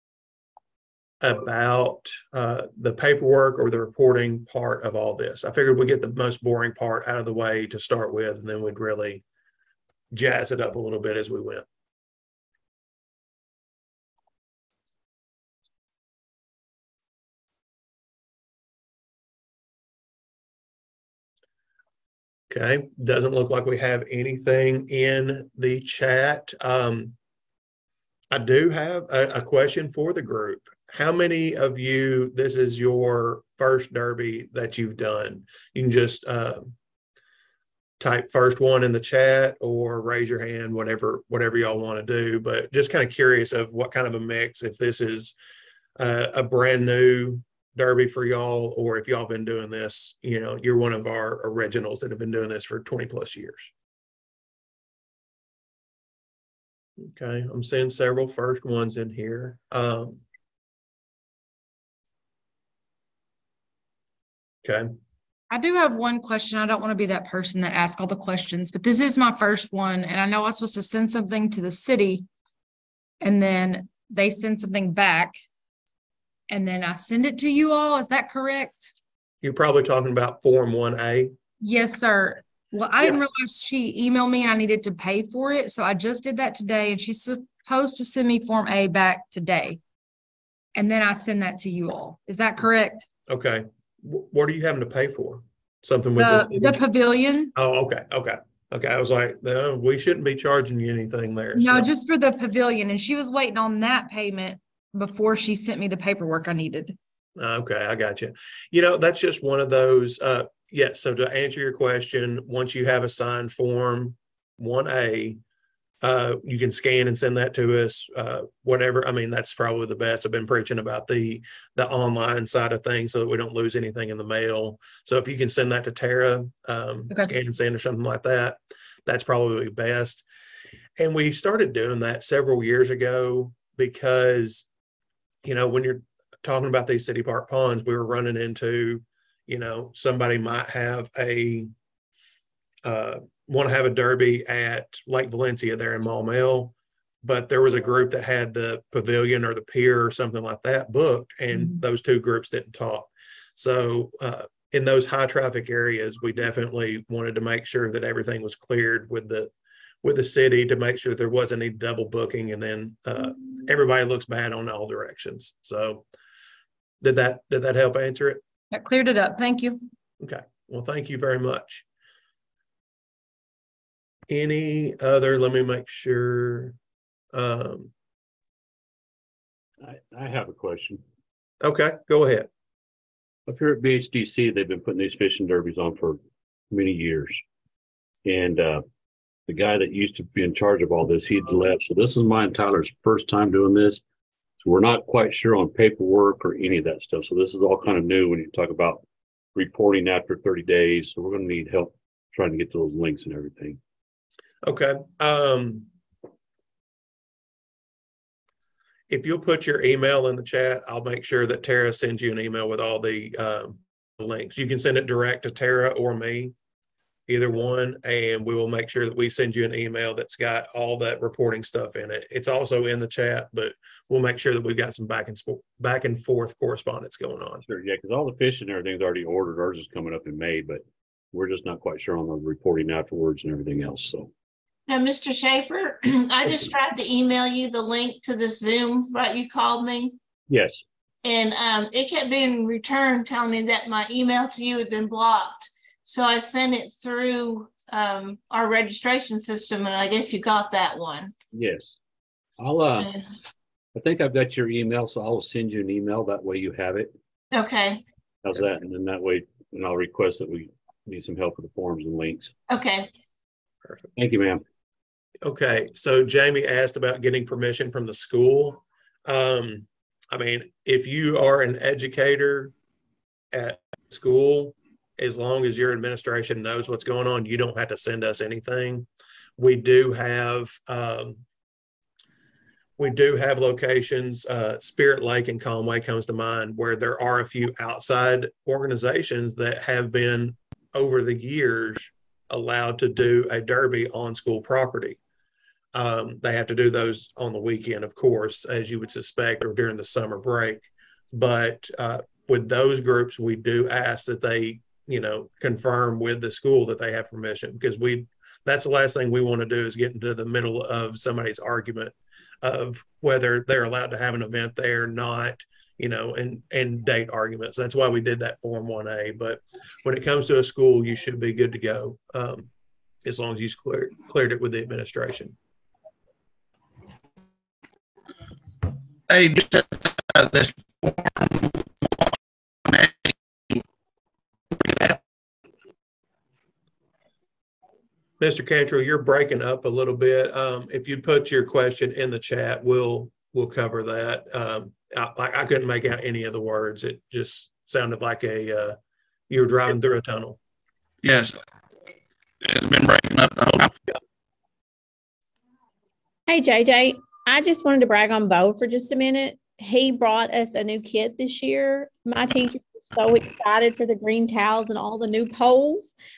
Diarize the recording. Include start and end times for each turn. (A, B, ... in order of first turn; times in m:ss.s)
0:01.2-0:09.2 A
0:10.1-0:11.6 A
0:22.5-0:27.1 A
0:28.3-0:36.7 A
0:38.0-0:45.4 A
0:46.0-0:53.7 A
0:57.0-1:00.2 A
1:04.6-1:04.9 A
1:05.5-1:12.2 B
1:13.2-1:15.3 B
1:16.5-1:18.9 B
1:19.4-1:21.3 A
1:21.6-1:29.8 B
1:30.8-1:33.1 B
1:33.3-1:36.8 A
1:36.2-1:37.5 B
1:37.5-1:41.9 A
1:41.5-1:47.0 B
1:47.4-1:55.4 A
1:56.0-2:10.2 A
2:11.0-2:14.6 A
2:15.4-2:21.7 A
2:22.8-2:39.5 A
2:40.0-2:46.0 A
2:47.0-2:48.4 A
2:48.7-2:49.8 B
2:50.2-2:51.8 A
2:54.3-2:56.8 A
2:57.3-2:57.9 A
2:59.8-3:01.0 C
3:01.6-3:02.5 A
3:03.5-3:06.2 C
3:06.7-3:07.4 C
3:08.2-3:08.8 C
3:09.5-3:14.0 C
3:14.6-3:19.0 C
3:19.5-3:23.8 C
3:24.6-3:25.9 A
3:29.1-3:36.5 A
3:37.3-3:47.6 A
3:47.6-3:54.3 C
3:54.9-4:00.2 D
4:00.5-4:00.8 C
4:01.2-4:11.3 D
4:11.5-4:12.0 C
4:12.6-4:13.1 C
4:13.9-4:17.1 C
4:17.5-4:18.0 D
4:18.4-4:22.5 C
4:22.7-4:23.1 D
4:24.2-4:24.6 C
4:25.4-4:32.7 A
4:33.5-4:39.1 A
4:39.6-4:41.4 A
4:43.0-4:55.2 A
4:55.9-5:22.7 A
5:23.2-5:25.6 A
5:29.3-5:32.2 E
5:32.9-5:33.8 E
5:34.7-5:35.2 E
5:38.4-5:49.0 A
5:49.5-5:50.6 A
5:51.2-5:51.5 E
5:52.6-5:54.0 E
5:56.5-6:06.1 F